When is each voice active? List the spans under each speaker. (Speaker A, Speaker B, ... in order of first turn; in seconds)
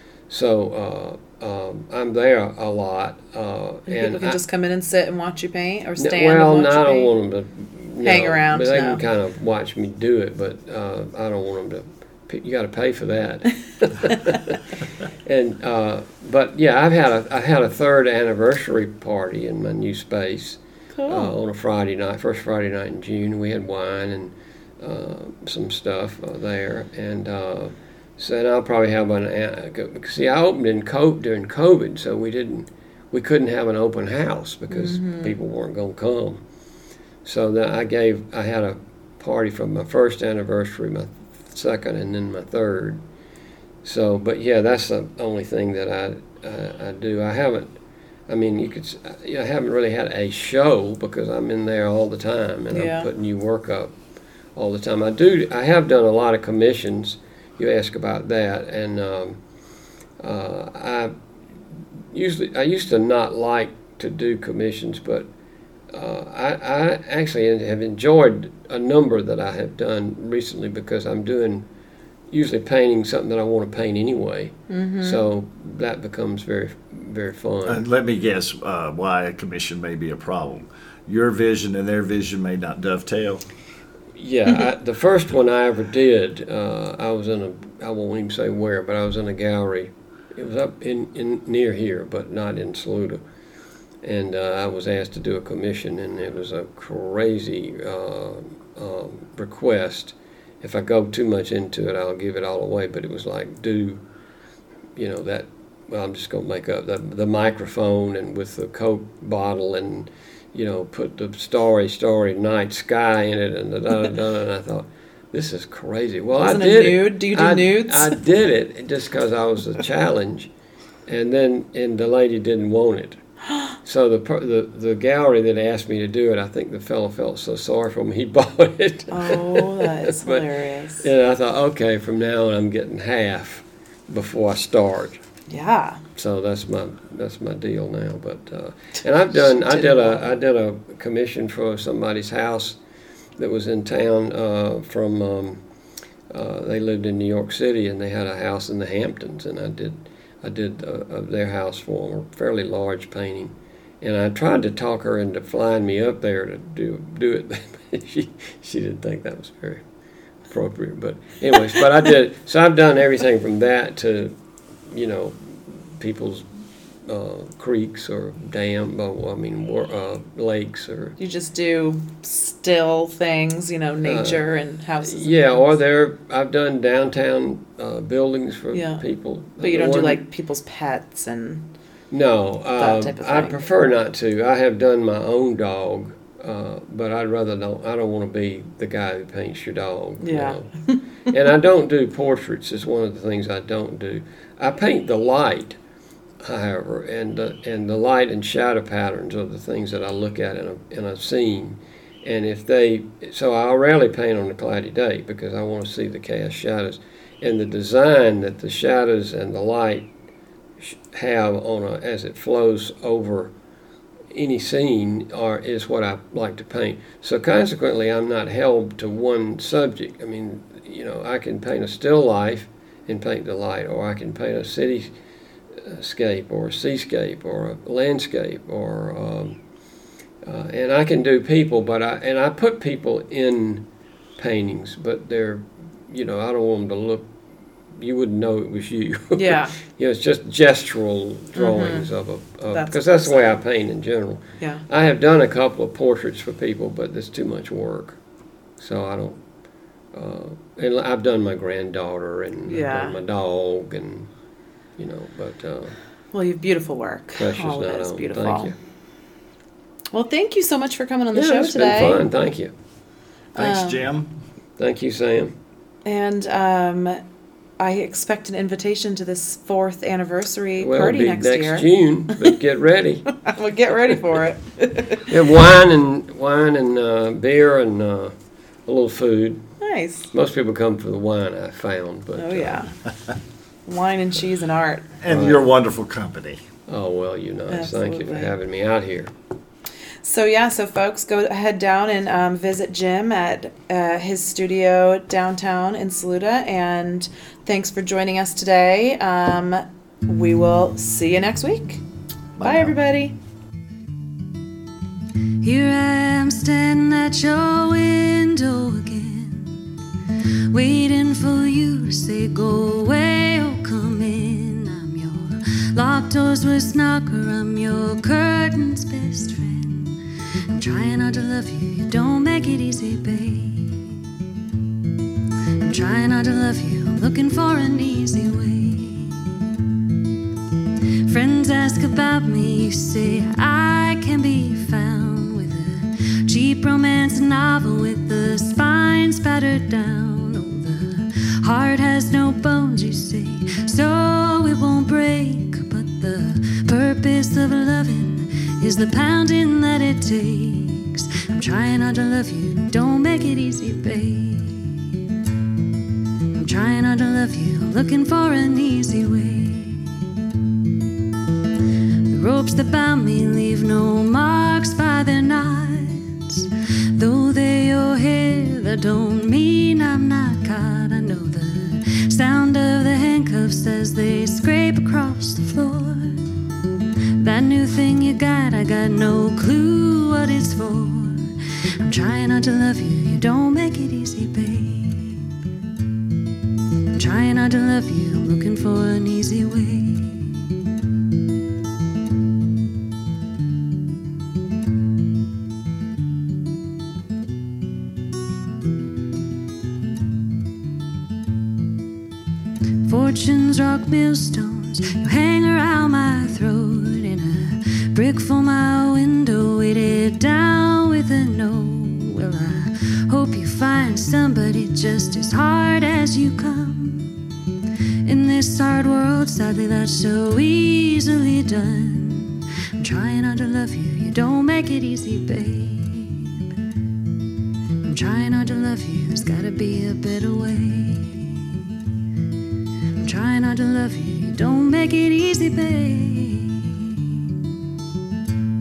Speaker A: 0.3-4.4, 6.0-36.4, 37.2-43.0, 43.8-47.8, 48.3-53.9, 54.5-59.4, 60.2-61.1, 62.1-65.3, 65.9-71.7, 72.3-77.8, 84.2-93.2, 94.0-104.0, 105.0-120.5, 121.0-123.2, 123.8-130.5, 131.0-135.2, 136.2-142.8, 143.4-145.6, 146.3-159.8, 160.5-164.3, 164.9-166.5, 167.1-171.2, 174.0-174.4, 175.0-180.2, 182.1-190.7, 191.2-195.8, 196.4-210.1, 210.8-213.5, 214.3-225.1, 225.8-229.6, 230.4-233.8, 234.4-237.3, 237.9-248.2, 248.8-249.4, 250.1-254.3, 255.0-256.0, 257.4-258.7, 261.3-262.7, 264.8-265.5, 270.8-273.4, 275.2-278.3, 278.9-279.6, 280.3-282.9, 285.3-285.7, 286.9-289.3
Speaker B: 3.9-7.1, 8.0-9.0, 20.9-21.3, 34.7-35.4, 52.7-53.1, 74.7-75.2, 116.4-118.2, 129.1-131.1, 135.5-136.0, 139.3-140.3, 171.2-175.7, 178.7-179.0, 179.6-181.7, 182.8-183.6, 190.2-191.0, 239.3-239.7, 241.5-242.1, 242.7-243.6, 252.7-253.2, 256.3-258.7, 260.1-262.2, 263.6-264.0, 266.0-267.2, 267.8-271.9, 273.4-275.3, 279.8-280.3, 282.4-282.9, 283.9-285.1, 287.7-288.5, 290.2-302.0, 302.6-303.3
Speaker C: 77.7-83.4, 263.6-264.3, 285.2-286.6, 302.6-302.9
Speaker D: 305.6-309.8, 310.7-320.2, 320.7-324.2, 325.8-329.5, 331.3-355.1, 356.5-360.2, 362.3-376.4, 377.4-385.5, 387.1-390.7, 403.0-417.3, 418.2-426.6, 428.0-431.9, 433.2-437.5